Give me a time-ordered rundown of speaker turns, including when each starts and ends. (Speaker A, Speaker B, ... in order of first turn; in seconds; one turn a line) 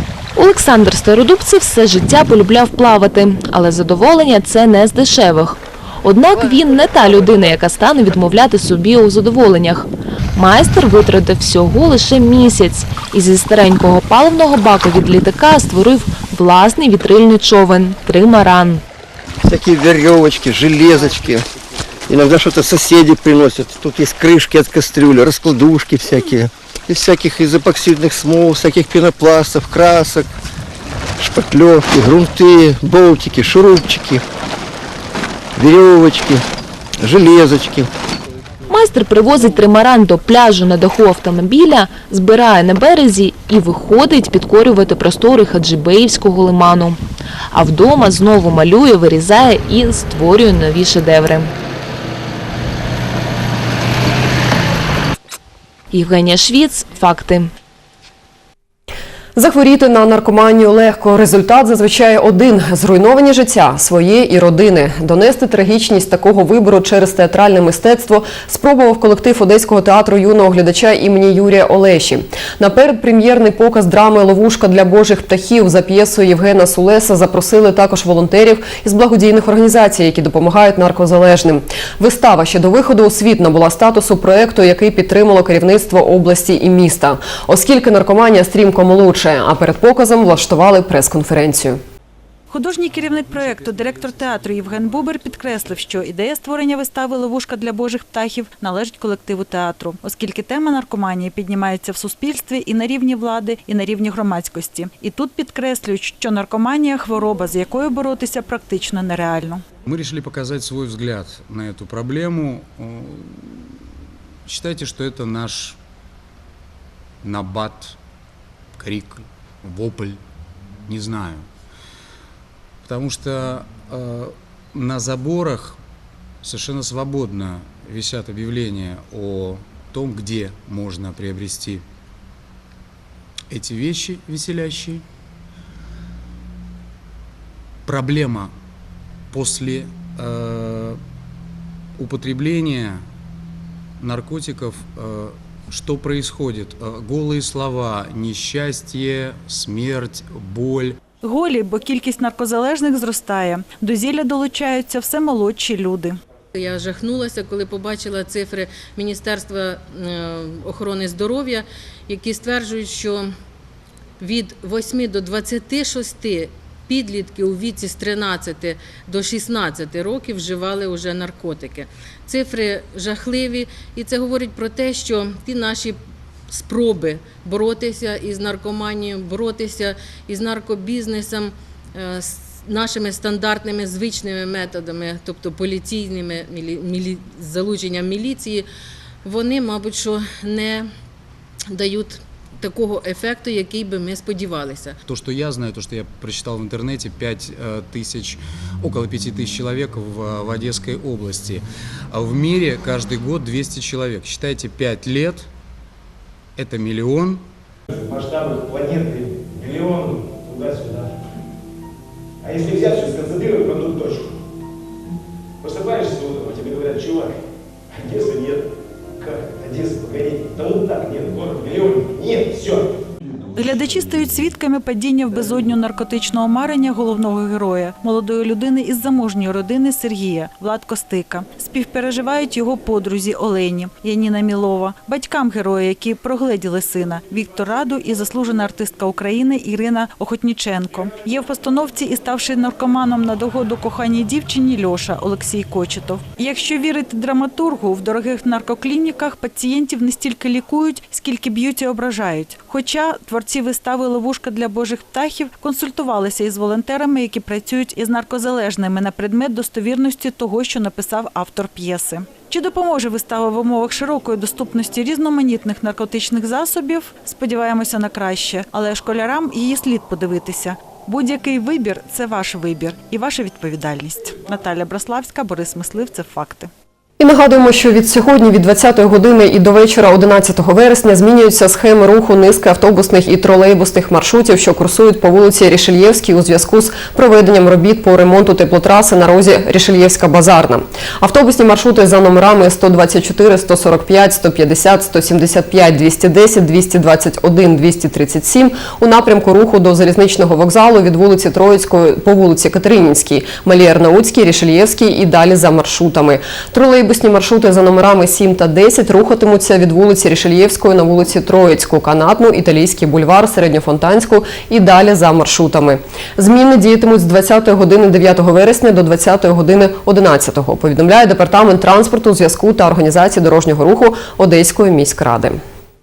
Speaker A: 0.3-18.8
Speaker B: 19.5-21.4
Speaker B: 22.1-30.2
Speaker B: 31.2-34.2
Speaker B: 35.6-36.4
Speaker B: 37.0-37.9
Speaker A: 38.7-47.0
Speaker A: 47.5-51.5
Speaker A: 55.9-57.5
Speaker C: 59.4-91.8
Speaker D: 92.5-109.6
Speaker E: 109.9-113.6
Speaker E: 114.5-115.8
Speaker E: 117.2-118.0
Speaker E: 118.8-120.2
Speaker E: 120.9-121.4
Speaker E: 122.9-125.8
Speaker E: 126.4-131.8
Speaker E: 133.5-135.0
Speaker E: 137.9-138.5
Speaker E: 139.3-141.0
Speaker E: 142.0-142.9
Speaker E: 144.0-150.9
Speaker D: 151.2-156.2
Speaker F: 156.6-163.3
Speaker F: 164.2-176.0
Speaker F: 176.5-188.7
Speaker F: 189.2-190.9
Speaker F: 191.7-195.0
Speaker E: 195.1-201.6
Speaker E: 202.1-205.5
Speaker E: 206.6-207.4
Speaker G: 208.0-211.1
Speaker G: 212.4-214.3
Speaker G: 215.6-217.4
Speaker G: 218.0-218.7
Speaker G: 219.2-222.9
Speaker D: 223.6-276.7
Speaker C: 277.2-325.6